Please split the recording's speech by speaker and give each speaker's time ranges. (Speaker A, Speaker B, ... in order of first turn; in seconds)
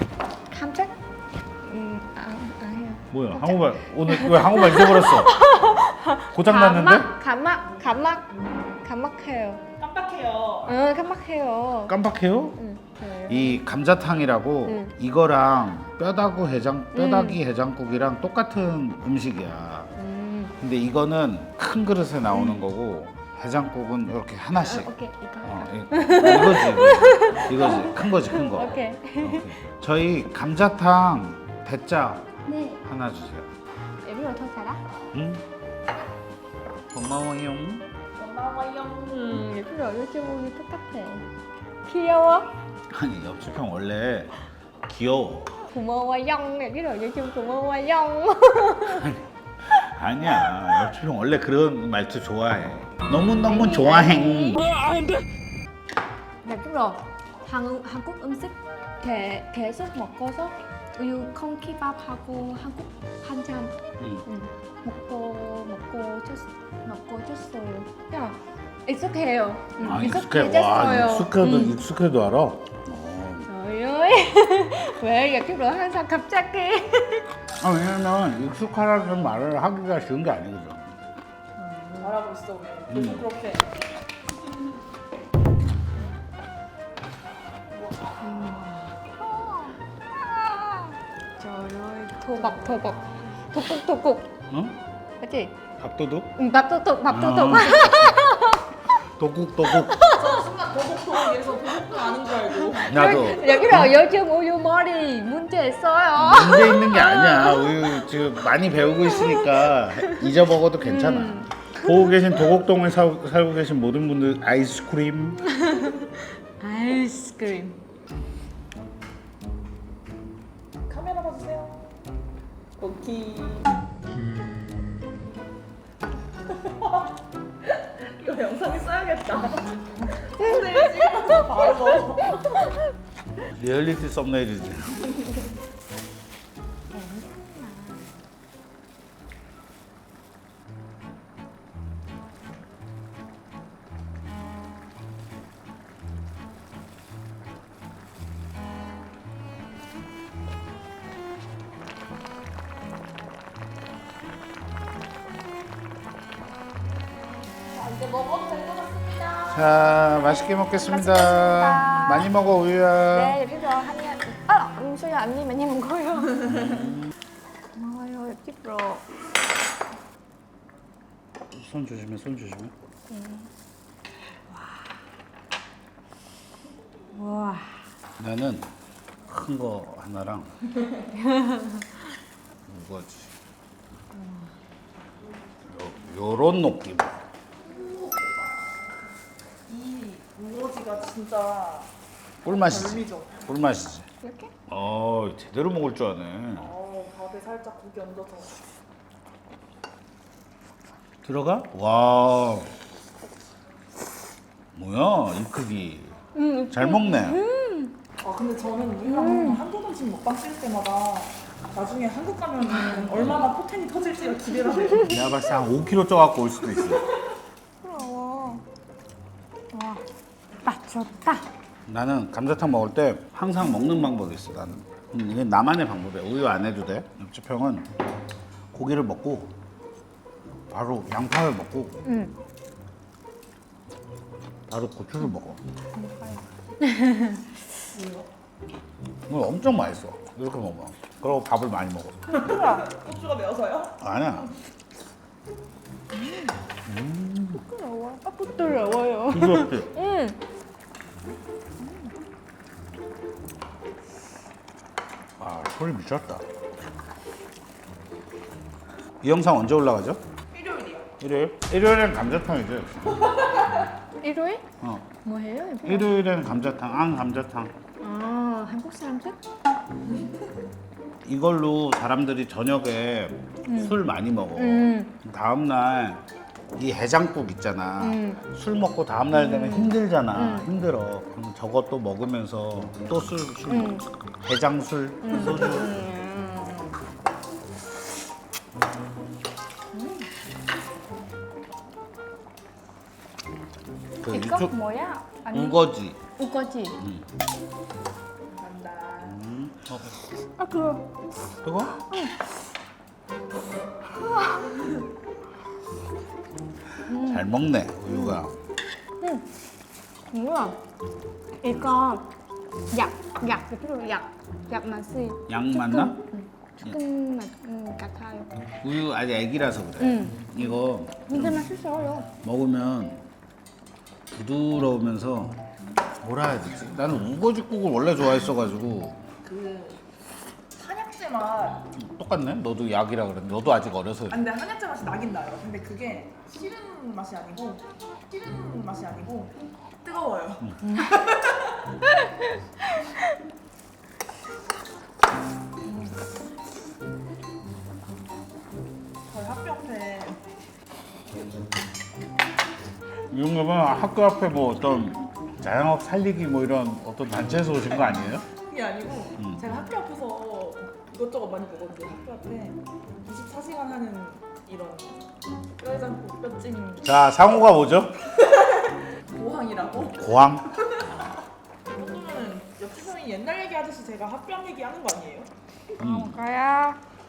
Speaker A: 0.5-0.9, 1.6-8.3, 8.8-9.6, 10.7-11.9, 12.6-13.6, 14.7-14.9, 16.9-17.4, 20.0-20.5, 22.3-22.6, 24.6-29.6, 32.5-32.8, 34.0-34.8, 39.0-41.3, 41.9-42.5, 45.7-49.1, 53.4-54.6, 56.4-71.8, 73.5-77.3, 88.2-94.3, 95.2-95.5, 96.4-98.8, 99.7-100.5, 102.1-108.1, 108.9-112.3, 115.4-117.8, 129.9-132.8, 136.9-138.1, 160.3-162.3, 163.1-166.9, 167.7-169.1, 173.1-173.5, 174.5-174.8, 177.1-177.8, 181.3-181.8, 194.2-194.5, 206.3-208.0, 209.1-209.6, 217.8-218.6, 219.7-220.0, 220.6-221.5, 232.0-232.3, 236.0-237.6, 242.3-242.8, 246.2-246.5, 247.6-250.4, 264.2-264.6, 265.2-266.1, 268.0-269.4, 273.7-274.0, 274.6-275.1, 278.0-278.4, 279.3-280.7, 283.7-284.1, 285.2-287.0, 289.9-290.3, 294.3-297.0, 300.6-301.1, 301.9-302.4, 304.4-304.6, 307.1-307.5, 308.1-308.4, 309.2-309.5, 310.3-310.8, 311.6-312.3, 312.9-318.5, 320.0-320.7, 321.2-322.3, 340.8-341.2, 342.2-343.2, 376.0-377.0
Speaker B: 3.1-5.4, 6.3-7.1, 11.9-12.6, 13.2-19.9, 20.6-24.9, 25.4-32.3, 32.8-33.5, 35.1-35.4, 36.9-37.9, 42.9-45.6, 48.9-54.6, 64.0-64.2, 69.8-73.5, 77.6-81.0, 82.9-83.2, 94.5-94.8, 95.8-96.3, 97.1-98.2, 99.0-100.0, 102.8-104.0, 106.2-115.5, 133.4-135.2, 159.5-163.4, 166.5-167.1, 171.5-172.7, 178.2-178.7, 179.3-180.5, 182.7-183.3, 185.7-187.2, 192.4-194.1, 194.7-196.7, 201.2-202.8, 204.8-207.4, 215.1-217.2, 221.9-227.9, 228.7-229.5, 230.7-232.0, 234.7-235.6, 239.3-242.2, 244.0-244.5, 246.9-247.6, 249.3-249.9, 255.4-256.4, 259.2-260.2, 261.2-263.3, 264.8-265.1, 265.8-267.7, 271.2-276.2, 276.8-286.0, 294.2-294.7, 295.5-296.2, 297.0-297.3, 299.2-300.2, 301.6-302.0, 307.1-308.5, 315.5-316.2, 318.8-321.7, 322.4-323.2, 324.3-325.6, 326.2-329.2, 332.0-334.4, 340.6-340.9, 353.3-358.5, 367.0-368.3, 370.2-370.9, 376.0-376.4
Speaker C: 9.8-10.8, 38.2-39.1, 82.0-83.7, 100.0-102.9, 120.9-121.9, 122.8-123.7, 126.5-127.1, 127.7-132.4, 157.7-159.8, 187.7-188.3, 189.7-191.9, 192.4-193.5, 196.6-198.6, 208.2-215.2, 237.9-238.3, 242.3-244.0, 260.5-261.1, 298.5-299.4, 329.4-330.0, 330.7-331.9, 334.3-341.9, 349.3-350.4, 358.5-365.2, 365.8-367.2, 368.4-370.3, 371.9-375.5